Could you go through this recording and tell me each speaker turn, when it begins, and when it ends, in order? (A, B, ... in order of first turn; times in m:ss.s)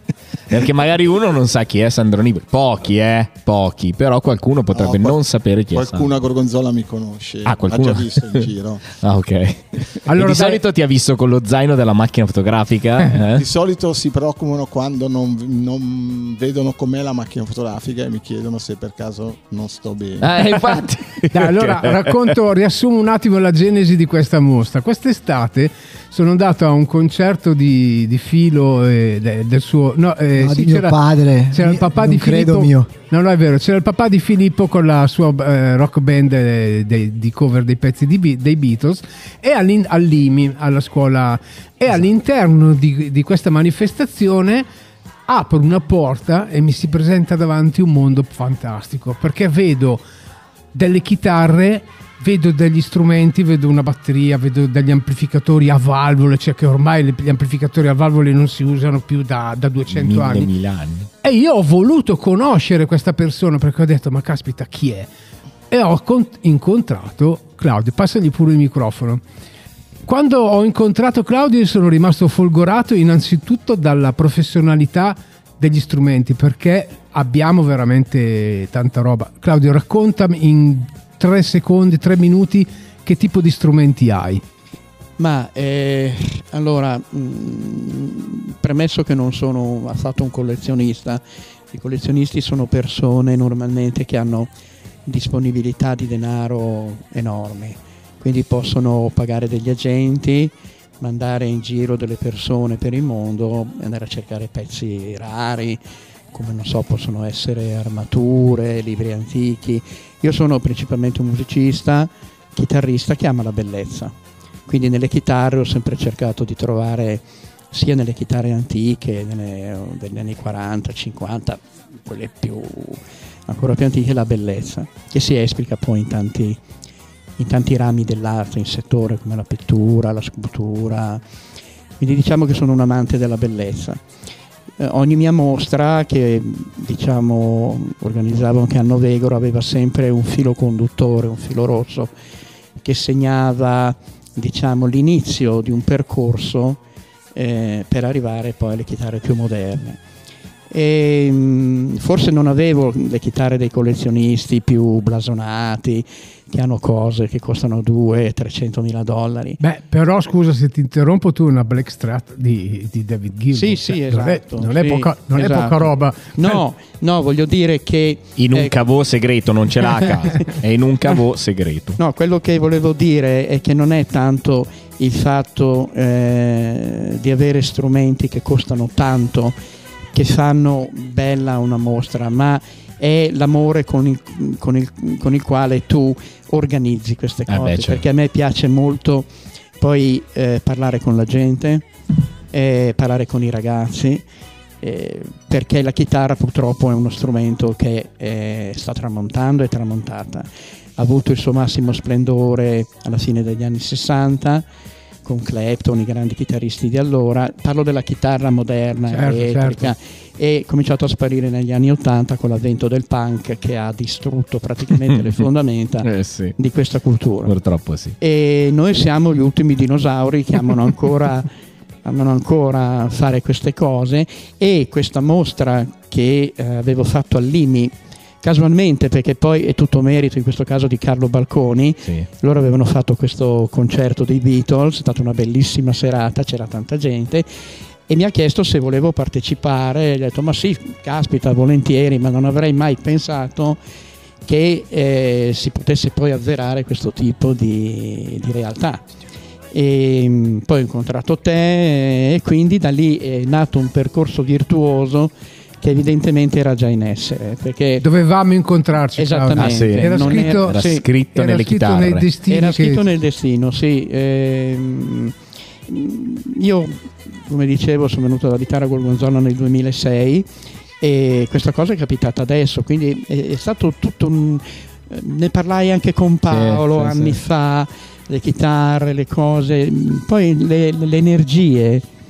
0:00.5-0:06.1 A
0:04.7-0:08.9 B
0:07.4-0:13.4 A
0:10.1-0:10.6 C
0:13.3-0:20.5 B
0:20.2-0:22.1 A
0:21.3-0:31.0 C
0:30.4-0:32.9 D
0:31.5-0:44.7 C
0:45.3-0:50.0 C
0:50.7-1:00.5 C
0:59.9-1:01.1 A
1:01.2-1:05.1 C
1:05.7-1:09.2 C
1:10.1-1:24.4 C
1:25.2-1:34.5 E
1:35.1-1:45.8 E
1:46.3-1:54.2 E
1:54.7-2:06.6 E
2:07.4-2:11.2 E
2:12.0-2:14.0 E
2:14.8-2:22.1 E
2:22.8-2:26.8 E
2:27.4-2:30.0 E
2:30.7-2:39.6 E
2:39.6-2:46.6 C
2:43.5-2:48.7 E
2:48.4-2:52.0 A
2:52.0-2:59.6 E
3:00.1-3:11.9 E
3:07.5-3:08.0 A
3:12.5-3:14.2 E
3:14.8-3:24.6 E
3:25.2-3:37.5 E
3:29.1-3:29.9 C
3:36.0-3:36.6 A
3:37.4-3:38.2 A
3:38.2-3:41.5 E
3:42.0-3:57.5 E
3:58.1-4:03.8 E
4:04.4-4:09.0 E
4:09.7-4:18.0 E
4:18.0-4:20.8 C
4:19.2-4:21.0 E
4:19.6-4:22.4 A
4:21.3-4:23.0 C
4:22.5-4:25.3 E
4:25.9-4:30.5 E
4:31.0-4:42.0 E
4:36.5-4:37.4 A